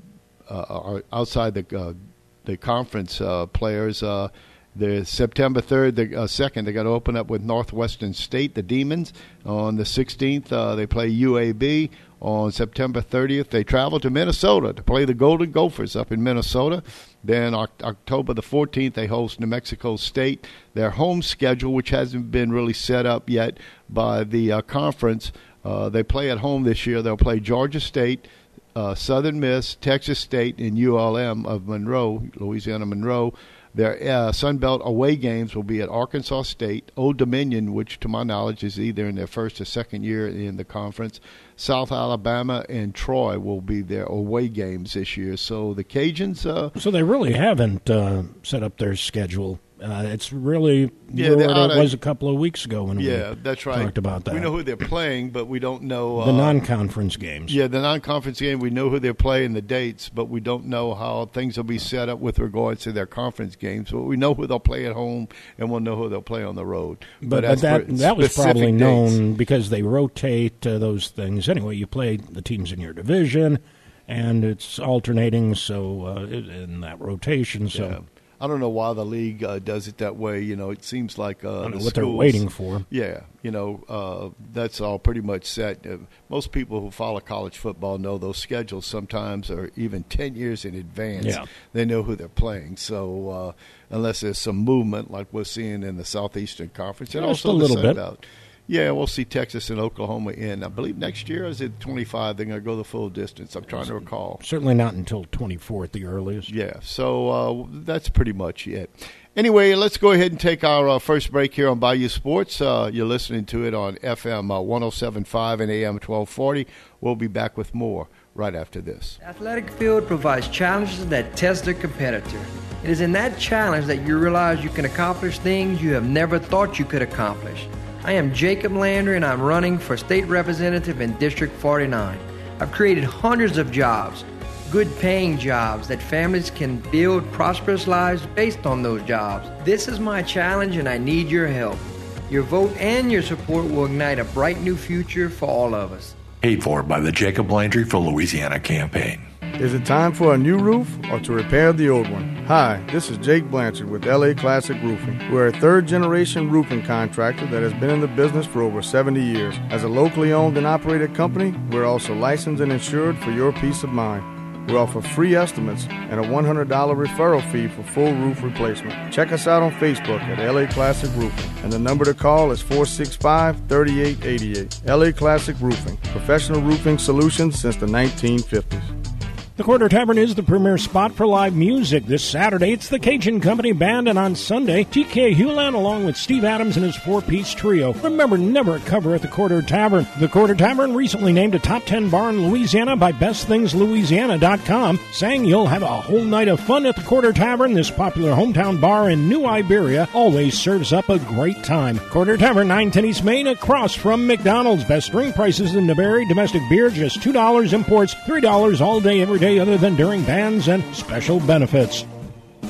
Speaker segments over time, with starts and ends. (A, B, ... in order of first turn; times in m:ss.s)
0:00.5-0:46.7 A
0:46.8-0:54.5 B
0:51.1-0:51.9 A
0:53.0-0:56.6 A
0:56.2-0:57.6 B
0:57.5-1:09.2 A
1:07.2-1:18.0 B
1:17.7-1:44.4 A
1:21.6-1:22.9 B
1:31.2-1:31.5 B
1:37.1-1:38.0 B
1:44.4-1:46.5 B
1:46.5-1:59.2 A
1:59.2-2:26.2 C
2:26.4-2:29.3 D
2:29.6-2:58.9 E
2:59.6-3:32.1 B